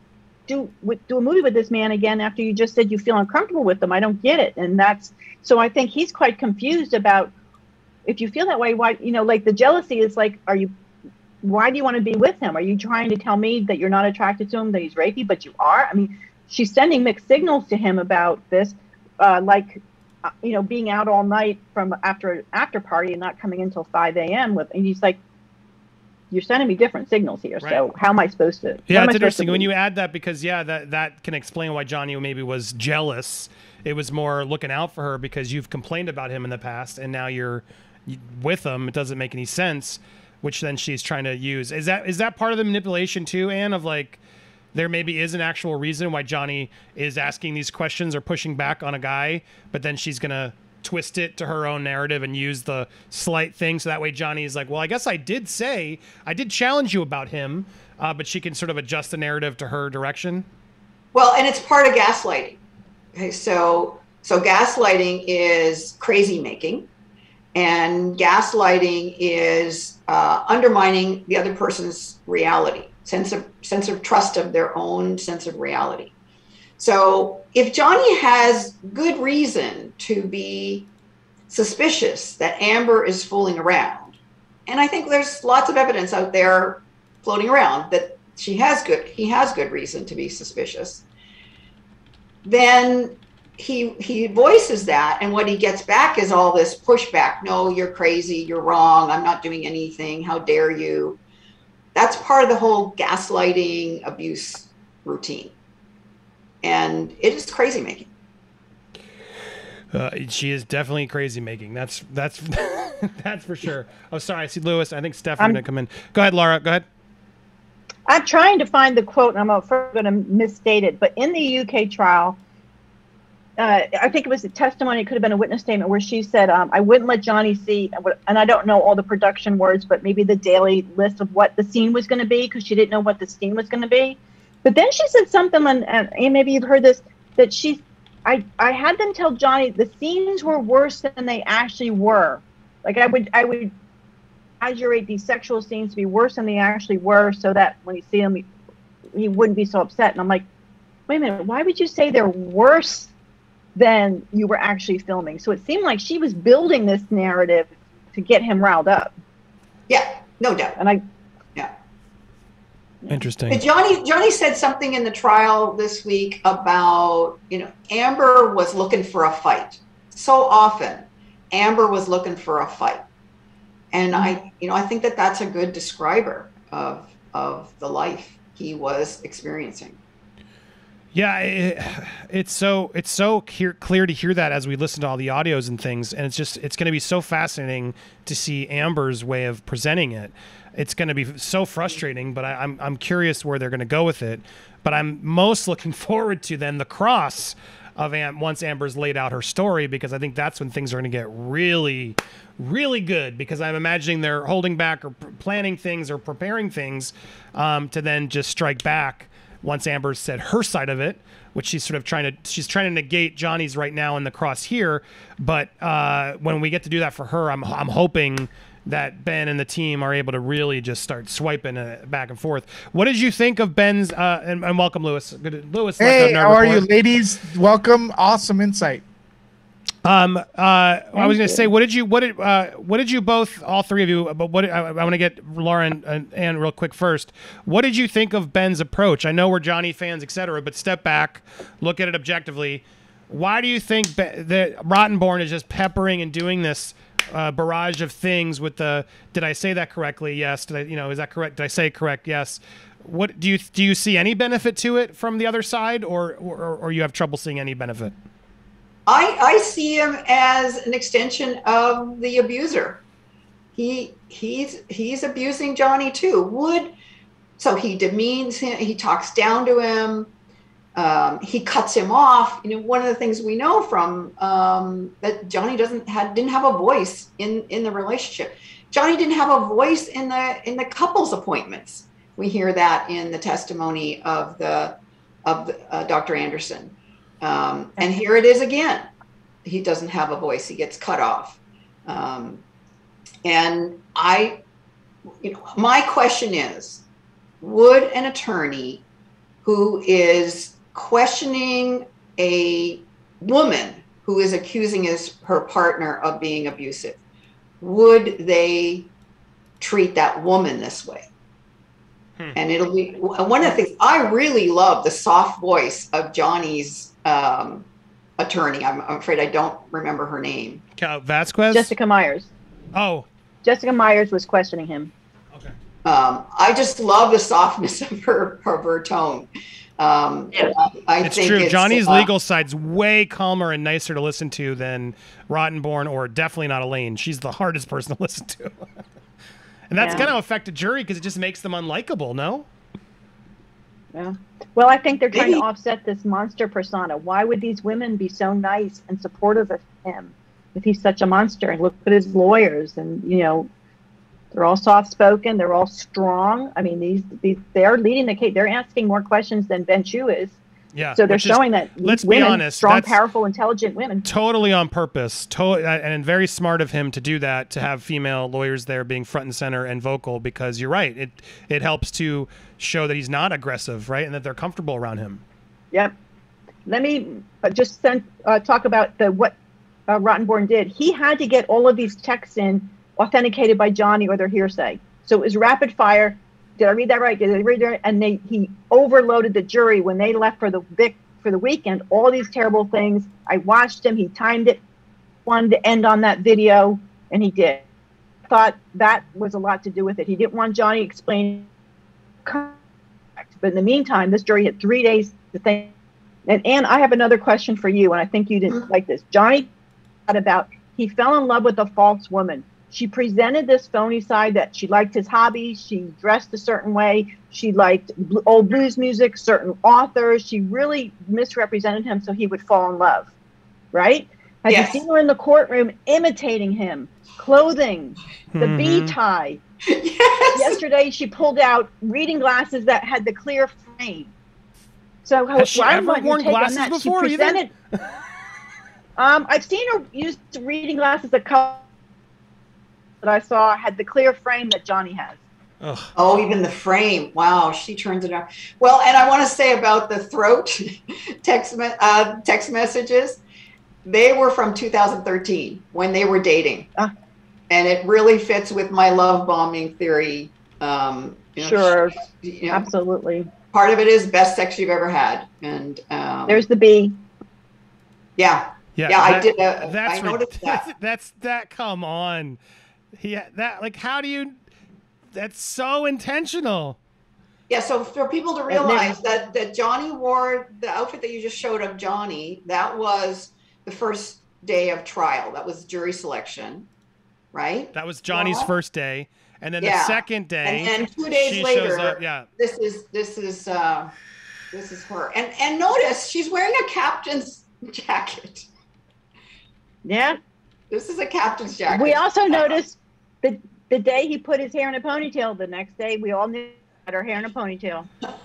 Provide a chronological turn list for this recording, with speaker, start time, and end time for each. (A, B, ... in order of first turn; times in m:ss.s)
0:00.5-0:07.3 A
0:08.0-0:10.7 A
0:11.4-0:25.2 A
0:26.3-0:29.7 A
0:28.9-0:44.2 B
0:44.7-1:00.4 B
1:01.1-1:02.6 C
1:03.1-1:06.9 C
1:07.5-1:16.1 C
1:16.8-1:20.9 C
1:21.5-1:31.0 C
1:32.4-1:41.2 C
1:41.9-1:45.5 C
1:46.6-1:48.1 C
1:49.9-1:56.8 B
1:58.1-2:02.4 A
2:03.6-2:23.7 A
2:24.6-2:28.4 A
2:29.1-2:30.4 A
2:31.1-2:33.1 A
2:33.7-2:39.1 A
2:39.9-2:40.8 C
2:43.1-2:43.6 B
2:43.5-2:53.0 C
2:53.9-3:00.0 C
3:01.1-3:46.8 B
3:46.0-3:49.0 D
3:50.0-4:18.1 B
3:51.2-3:51.7 A
4:19.0-4:23.0 C
4:23.8-4:26.9 C
4:27.6-4:30.3 C
4:30.9-4:49.1 C
4:49.6-4:52.6 C
4:53.4-4:54.6 C
4:55.4-4:57.0 C
4:57.6-4:59.0 C
4:59.6-5:07.2 C
5:07.8-5:09.1 C
5:09.8-5:11.3 C
5:12.5-5:17.9 C
5:18.4-5:20.8 C
5:21.0-5:21.9 B
5:21.7-5:22.5 A
5:22.9-5:23.2 B
5:23.6-5:25.1 A
5:26.0-5:32.3 C
5:31.2-5:38.8 B
5:39.9-5:42.6 B
5:40.0-5:40.3 A
5:44.1-5:53.7 A
5:45.3-5:45.6 C
5:54.5-6:00.6 A
6:00.9-6:03.2 B
6:01.2-6:04.2 A
6:04.2-6:15.4 B
6:16.8-6:19.5 A
6:20.1-6:34.8 A
6:35.4-6:37.8 A
6:38.5-6:41.7 A
6:42.4-6:42.8 A
6:43.5-6:45.9 A
6:46.4-6:49.7 A
6:50.3-7:03.3 A
7:03.9-7:09.6 A
7:04.7-7:05.0 C
7:08.5-7:09.2 B
7:09.9-7:10.8 C
7:10.5-7:14.3 A
7:15.2-7:17.7 A
7:15.6-7:17.6 B
7:19.2-7:21.8 A
7:23.2-7:25.4 A
7:25.8-7:26.1 B
7:26.2-7:33.4 C
7:34.0-7:36.9 C
7:37.7-7:42.8 C
7:41.6-7:42.2 A
7:42.7-7:43.5 A
7:43.7-7:46.6 C
7:46.5-7:47.2 A
7:48.4-7:50.9 C
7:48.9-7:52.6 B
7:53.2-7:54.6 B
7:55.3-7:57.0 B
7:57.7-8:06.9 C
7:58.7-7:59.2 A
8:07.5-8:08.7 C
8:07.9-8:12.5 B
8:09.8-8:14.1 C
8:14.7-8:18.7 C
8:20.0-8:20.4 A
8:20.9-8:22.8 C
8:21.9-8:28.1 A